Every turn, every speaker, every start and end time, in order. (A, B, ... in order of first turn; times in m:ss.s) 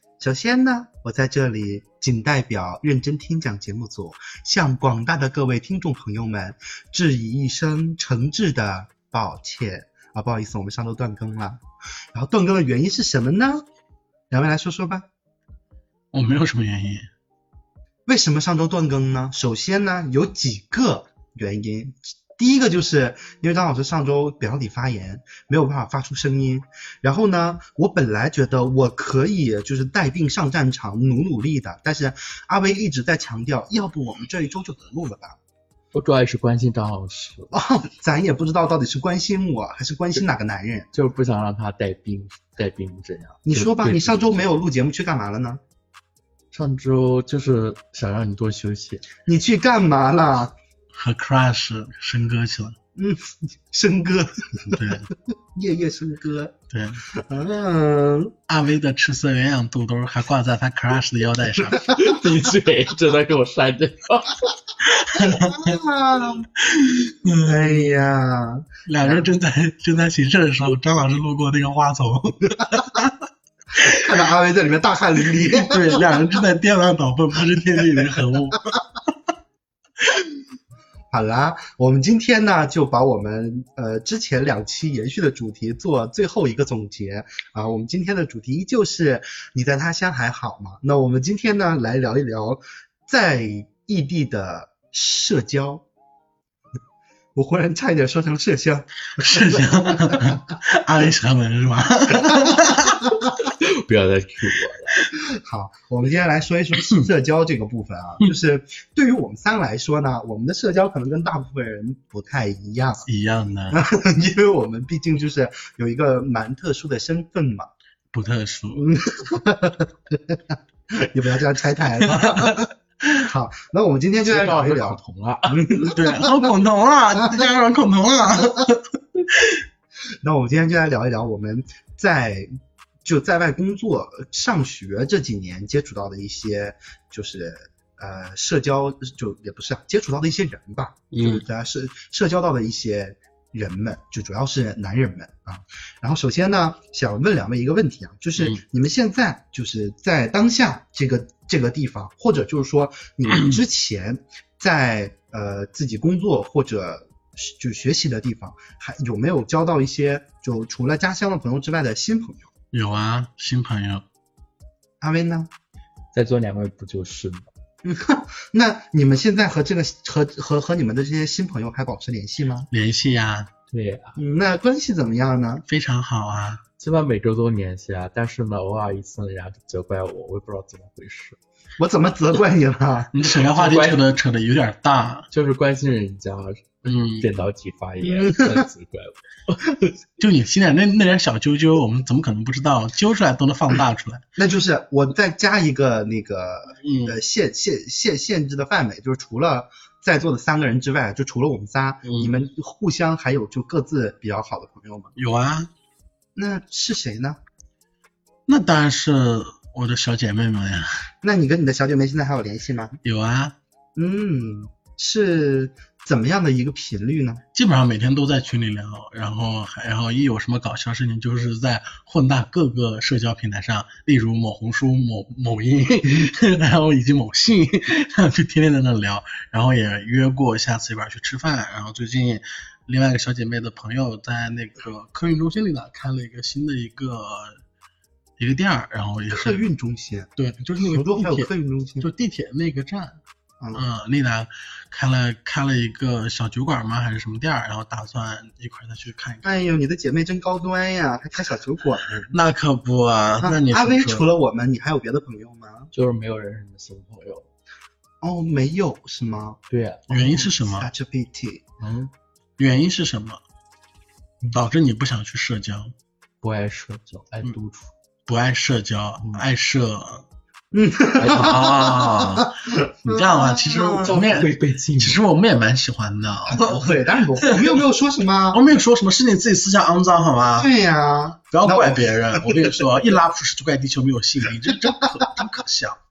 0:00.2-0:11.6 A
0:12.1-0:13.6 A
0:14.3-0:15.0 A
0:16.1-0:17.1 B
0:18.1-0:35.4 A
0:35.9-0:37.5 C
0:37.5-0:40.9 A
0:40.9-0:44.5 C
0:43.4-0:45.6 A
0:46.5-0:49.0 C
0:49.2-0:50.5 A
0:50.9-0:52.8 B
0:53.0-0:54.9 A
0:54.7-0:55.1 B
0:55.5-0:56.5 A
0:56.7-0:57.0 B
0:57.1-0:58.3 A
0:58.5-1:01.9 B
1:01.7-1:02.1 A
1:01.9-1:04.4 C
1:04.8-1:05.8 B
1:05.5-1:06.5 A
1:06.6-1:08.0 B
1:07.4-1:09.2 A
1:08.8-1:13.1 B
1:13.8-1:14.1 B
1:13.9-1:16.2 A
1:15.5-1:18.7 B
1:21.1-1:35.8 A
1:37.3-1:40.4 A
1:39.2-1:43.0 B
1:42.3-1:43.1 A
1:43.4-1:45.0 C
1:45.4-1:53.0 A
1:53.1-1:53.8 B
1:53.7-1:57.7 A
1:58.1-1:58.8 B
1:58.7-2:06.5 A
2:02.0-2:02.7 B
2:04.2-2:05.7 C
2:05.9-2:09.6 B
2:10.2-2:12.5 A
2:13.0-2:42.5 A
2:21.1-2:21.4 B
2:33.3-2:33.6 B
2:42.7-2:44.0 B
2:45.0-2:45.5 A
2:46.1-2:47.5 C
2:47.8-2:52.7 A
2:52.7-2:53.5 B
2:53.7-2:54.2 C
2:54.2-2:55.6 A
2:55.7-2:56.6 B
2:56.8-3:01.4 C
3:01.8-3:03.1 A
3:03.1-3:05.3 B
3:03.5-3:04.0 C
3:05.3-3:09.6 C
3:06.8-3:07.3 B
3:08.0-3:08.6 A
3:10.2-3:14.2 B
3:14.4-3:25.1 A
3:16.8-3:17.2 B
3:22.0-3:22.3 B
3:25.2-3:25.7 B
3:26.4-3:27.4 A
3:28.5-3:31.1 B
3:31.2-3:33.0 A
3:33.0-3:33.5 B
3:34.0-3:37.4 A
3:37.5-3:57.6 B
3:58.4-3:59.6 B
3:59.3-4:02.1 A
4:00.4-4:01.5 B
4:02.0-4:03.2 B
4:03.6-4:03.8 A
4:03.7-4:09.5 B
4:09.4-4:12.3 A
4:12.3-4:14.2 B
4:13.4-4:15.9 A
4:15.9-4:17.5 C
4:18.2-4:21.6 A
4:19.7-4:20.1 C
4:20.1-4:20.9 B
4:21.8-4:22.1 C
4:22.6-4:23.4 B
4:24.5-4:25.9 B
4:26.4-4:27.9 C
4:28.3-4:30.2 B
4:30.7-4:34.2 A
4:31.2-4:31.6 C
4:31.4-4:37.8 B
4:34.0-4:35.2 C
4:36.5-4:38.6 A
4:38.5-4:40.7 B
4:40.6-4:42.8 A
4:41.5-4:46.0 B